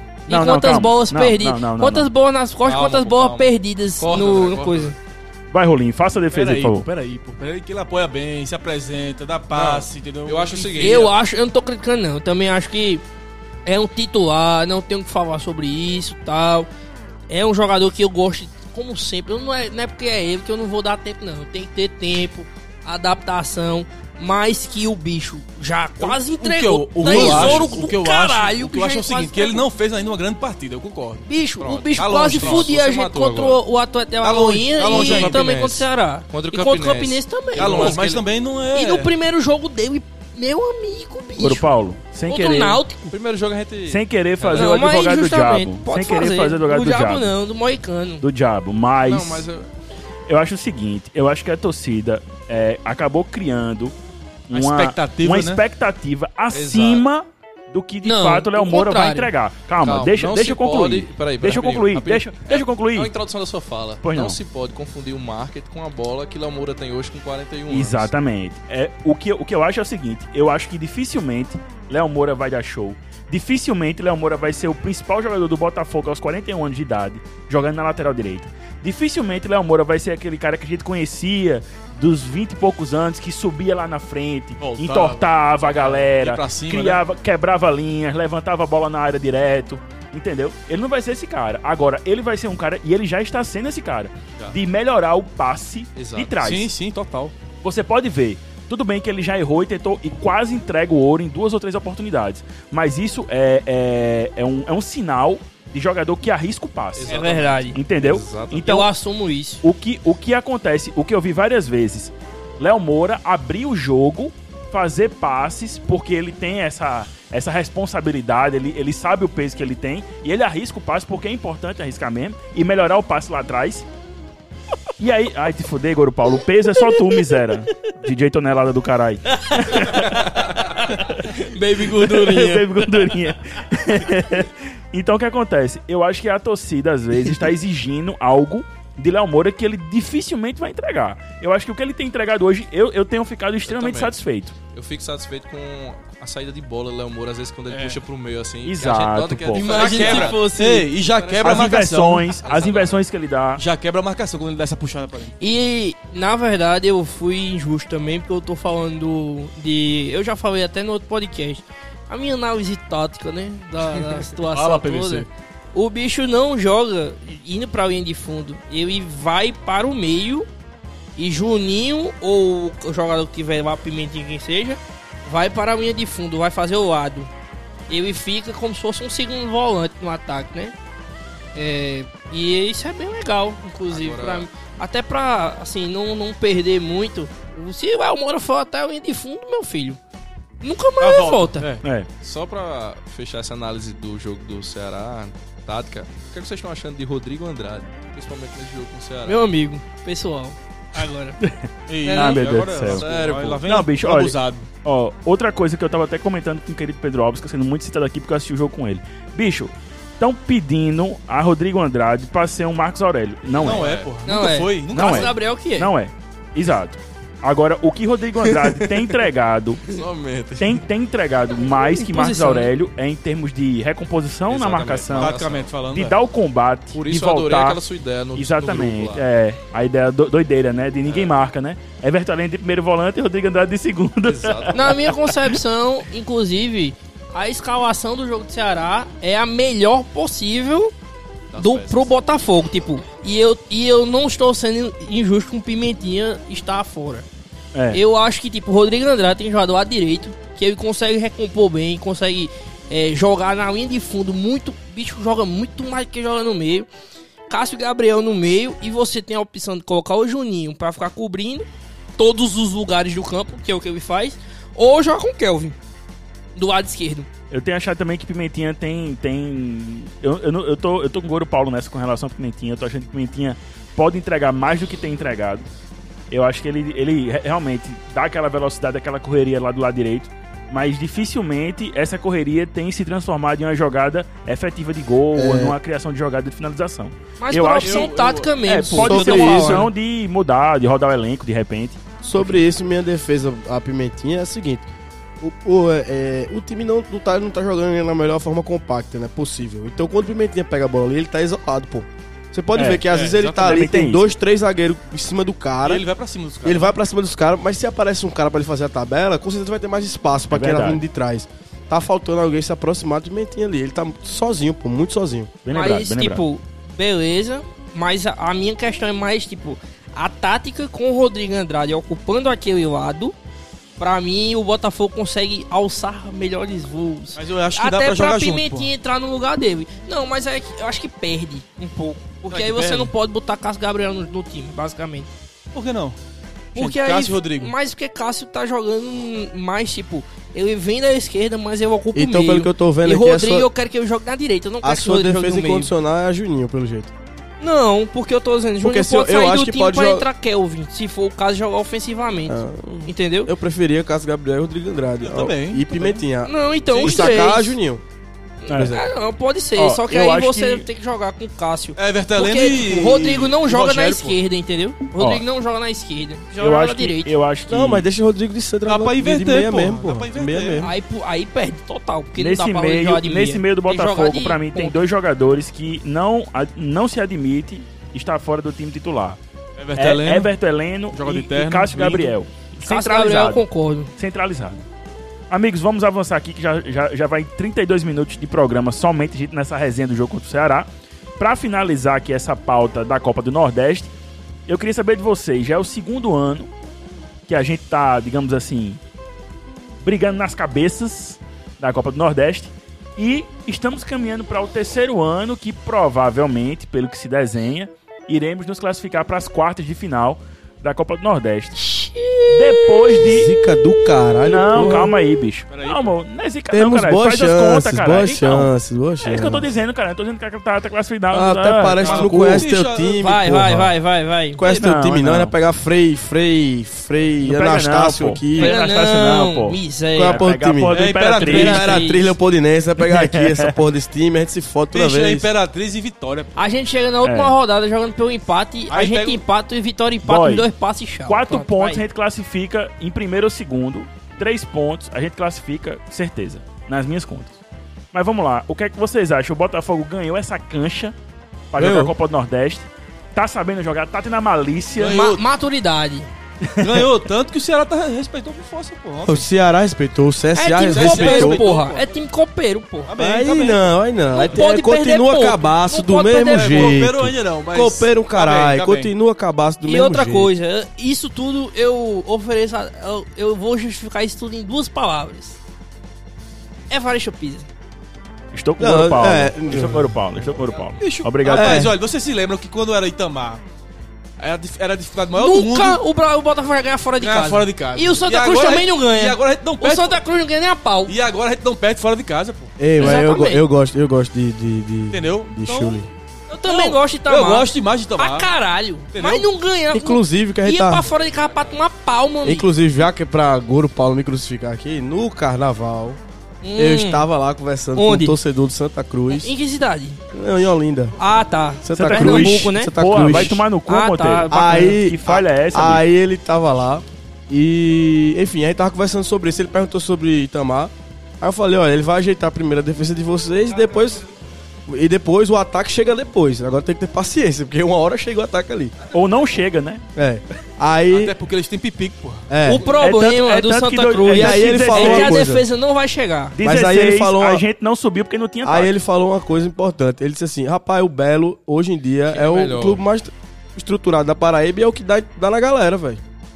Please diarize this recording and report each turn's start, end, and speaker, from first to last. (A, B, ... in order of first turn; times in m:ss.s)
0:00.3-0:05.0 A
0:00.3-0:02.1 B
0:02.6-0:05.0 C
0:05.5-0:06.9 B
0:06.3-0:11.1 D
0:09.5-0:11.1 C
0:10.8-0:13.0 A
0:13.7-0:16.7 A
0:17.3-0:29.7 A
0:26.0-0:31.3 D
0:27.0-0:27.8 C
0:31.3-0:38.0 A
0:31.6-0:33.6 C
0:31.9-0:32.7 D
0:34.2-0:35.5 D
0:34.9-0:38.2 C
0:37.5-0:39.1 D
0:38.7-0:41.7 A
0:41.4-0:42.8 B
0:42.3-0:43.1 A
0:43.1-0:44.7 C
0:43.9-0:47.3 B
0:44.5-0:48.2 A
0:48.2-0:49.5 B
0:49.0-0:49.7 C
0:50.3-0:53.9 B
0:54.5-1:03.1 B
0:54.5-0:55.6 D
0:56.5-0:57.0 C
0:58.0-0:59.3 A
0:59.8-1:08.1 C
1:04.0-1:04.4 B
1:07.7-1:36.7 B
1:24.6-1:27.0 D
1:36.0-1:36.4 C
1:36.4-1:37.4 D
1:37.6-1:47.2 B
1:47.0-1:48.7 C
1:47.1-1:47.8 A
1:47.7-1:48.9 B
1:48.6-1:49.6 A
1:49.6-2:03.9 B
2:05.0-2:24.6 B
2:06.8-2:07.2 A
2:09.4-2:12.7 A
2:23.7-2:24.2 C
2:24.7-2:33.0 C
2:27.7-2:28.0 D
2:28.6-2:29.7 B
2:29.6-2:30.9 A
2:29.6-2:32.3 D
2:31.4-2:33.6 B
2:33.6-2:35.4 D
2:35.4-2:50.5 A
2:44.0-2:45.3 D
2:51.2-2:57.3 A
2:57.9-3:00.7 A
3:01.6-3:10.0 A
3:03.9-3:04.5 C
3:10.6-3:11.7 A
3:11.0-3:11.8 D
3:11.8-3:12.1 B
3:12.2-3:19.4 C
3:19.3-3:21.4 A
3:21.4-3:34.0 B
3:21.9-3:24.7 D
3:22.0-3:22.6 A
3:22.4-3:23.6 C
3:33.5-3:34.1 C
3:33.6-3:35.4 D
3:34.3-3:35.9 A
3:34.9-3:40.0 B
3:38.5-3:39.0 C
3:39.9-3:40.8 C
3:40.6-3:45.4 B
3:41.8-3:42.7 A
3:44.5-3:45.8 C
3:45.2-3:46.2 D
3:45.9-3:47.8 B
3:46.9-3:49.3 C
3:48.4-3:55.5 B
3:51.1-3:51.4 C
3:54.2-3:55.1 C
3:54.7-4:00.9 A
4:01.5-4:02.1 C
4:01.6-4:07.3 A
4:07.7-4:08.0 B
4:07.9-4:16.9 A
4:17.5-4:21.7 A
4:22.2-4:25.8 A
4:26.6-4:27.3 A
4:27.5-4:35.7 B
4:36.3-4:52.6 B
4:45.3-4:45.8 E
4:47.4-4:49.9 A
4:47.8-4:48.6 D
4:48.9-4:49.8 E
4:52.2-4:54.9 E
4:55.4-5:06.1 E
5:02.7-5:04.3 B
5:03.1-5:03.8 D
5:05.8-5:06.9 D
5:06.6-5:15.5 E
5:10.5-5:11.0 B
5:15.6-5:16.4 B
5:15.7-5:23.3 A
5:24.0-5:35.3 A
5:27.4-5:28.9 D
5:32.4-5:33.1 D
5:35.7-5:36.2 D
5:36.7-5:45.9 A
5:36.8-5:37.7 D
5:42.1-5:43.7 E
5:44.8-5:47.1 E
5:47.6-5:53.5 A
5:48.8-5:50.3 E
5:52.5-5:58.0 E
5:55.2-5:56.2 D
5:56.4-5:57.8 A
5:56.9-5:57.5 D
5:58.6-6:07.4 A
5:58.7-5:59.0 B
5:58.7-5:59.0 E
5:59.8-6:00.9 B
6:02.0-6:04.4 D
6:05.2-6:05.4 B
6:06.6-6:08.1 B
6:07.7-6:10.9 E
6:08.9-6:10.9 D
6:10.7-6:15.0 A
6:12.4-6:19.4 B
6:19.8-6:20.5 D
6:20.0-6:23.6 B
6:21.1-6:22.4 D
6:22.8-6:24.1 A
6:24.2-6:24.8 B
6:25.5-6:34.1 B
6:34.7-6:36.7 B
6:37.5-6:39.0 B
6:40.0-6:51.8 B
6:51.8-6:55.0 A
6:52.5-6:53.5 B
6:53.2-6:55.1 E
6:54.4-6:58.7 B
6:55.7-6:56.1 D
6:56.7-6:59.7 E
6:59.2-7:02.7 B
7:01.3-7:03.9 E
7:02.0-7:03.2 D
7:03.2-7:04.6 A
7:04.5-7:08.8 E
7:04.6-7:05.5 B
7:07.4-7:11.8 B
7:08.6-7:10.4 A
7:10.2-7:15.5 E
7:10.9-7:12.0 D
7:11.4-7:12.3 A
7:13.0-7:13.7 B
7:14.9-7:16.7 D
7:16.6-7:22.0 A
7:17.2-7:17.6 B
7:18.9-7:19.4 D
7:20.2-7:20.7 B
7:21.3-7:27.6 B
7:28.1-7:31.2 B
7:31.7-7:35.2 B
7:31.8-7:32.1 E
7:35.0-7:35.4 D
7:35.0-7:36.3 A
7:36.6-7:37.1 B
7:36.8-7:39.4 D
7:39.2-7:41.6 E
7:40.6-7:43.1 A
7:40.9-7:42.1 D
7:43.1-7:43.9 D
7:43.2-7:50.5 E
7:44.3-7:47.0 A
7:46.5-7:49.1 D
7:49.8-7:55.6 A
7:56.9-7:57.7 A
7:58.5-8:01.8 B
7:58.8-8:00.2 E
8:01.0-8:03.6 D
8:01.4-8:01.9 E
8:04.4-8:06.0 D
8:05.4-8:11.2 A
8:07.2-8:10.2 D
8:11.1-8:13.1 D
8:12.8-8:16.1 E
8:13.0-8:13.6 A
8:15.1-8:15.8 D
8:15.7-8:22.7 A
8:16.6-8:18.5 D
8:19.1-8:19.5 D
8:19.9-8:21.1 E
8:22.4-8:26.2 E
8:26.6-8:27.3 A
8:26.8-8:29.5 E
8:28.0-8:28.4 A
8:29.3-8:30.2 A
8:30.3-8:31.2 E
8:31.2-8:35.0 A
8:31.8-8:33.6 E
8:32.0-8:36.0 B
8:34.5-8:44.2 E
8:44.9-8:48.9 E
8:49.1-8:50.0 B
8:50.2-8:51.3 E
8:51.1-8:52.5 D
8:52.5-8:52.9 E
8:52.6-8:56.6 A
8:52.8-8:55.4 B
8:54.2-8:55.7 E
8:56.6-8:58.9 B
8:56.6-8:57.6 E
8:58.6-9:06.2 E
9:02.3-9:03.0 C